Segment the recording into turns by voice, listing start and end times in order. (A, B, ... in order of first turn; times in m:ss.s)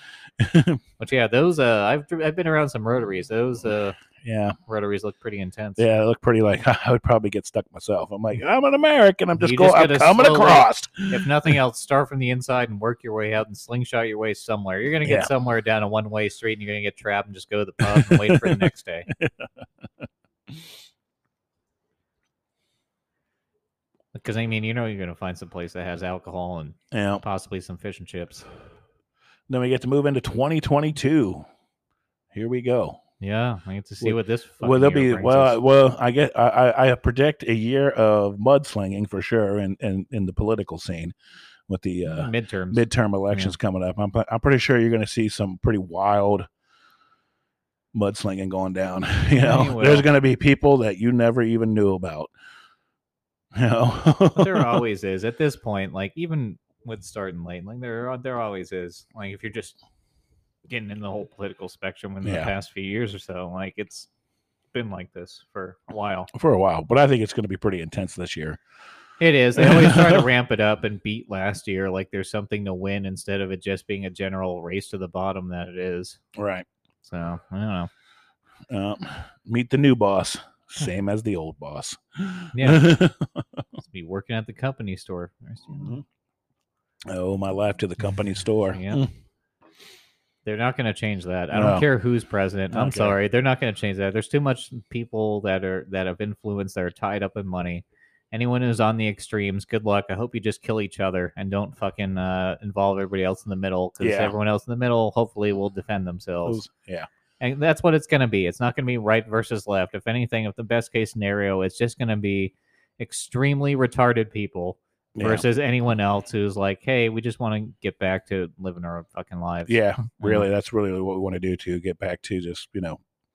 0:00.4-0:00.8 A
0:01.0-0:04.0 B
0:04.2-0:04.6 A
0:04.7-0:05.8 B
0:05.8-0:11.6 A
0:09.4-0:19.1 B
0:15.0-0:15.3 A
0:17.9-0:19.4 A
0:24.1-0:28.5 B
0:26.9-0:27.2 A
0:29.5-0:31.4 A
0:32.3-0:33.0 A
0:33.2-0:35.6 B
0:34.0-0:41.2 A
0:41.7-0:46.5 A
0:42.1-0:43.6 B
0:47.9-0:52.3 A
0:49.4-0:50.1 B
0:53.6-0:54.8 A
0:54.4-0:59.8 B
1:00.7-1:04.1 B
1:02.2-1:02.5 A
1:04.7-1:06.3 B
1:06.3-1:08.6 A
1:09.2-1:16.2 B
1:09.6-1:10.3 A
1:16.4-1:16.7 A
1:17.0-1:17.9 B
1:18.7-1:23.4 A
1:22.5-1:22.9 B
1:23.8-1:26.0 B
1:27.1-1:29.1 A
1:28.7-1:29.0 B
1:30.4-1:46.6 B
1:31.5-1:31.9 A
1:32.7-1:33.2 A
1:44.0-1:44.4 A
1:46.4-1:47.1 A
1:47.4-2:00.5 B
1:55.2-1:55.4 A
1:59.7-2:03.0 A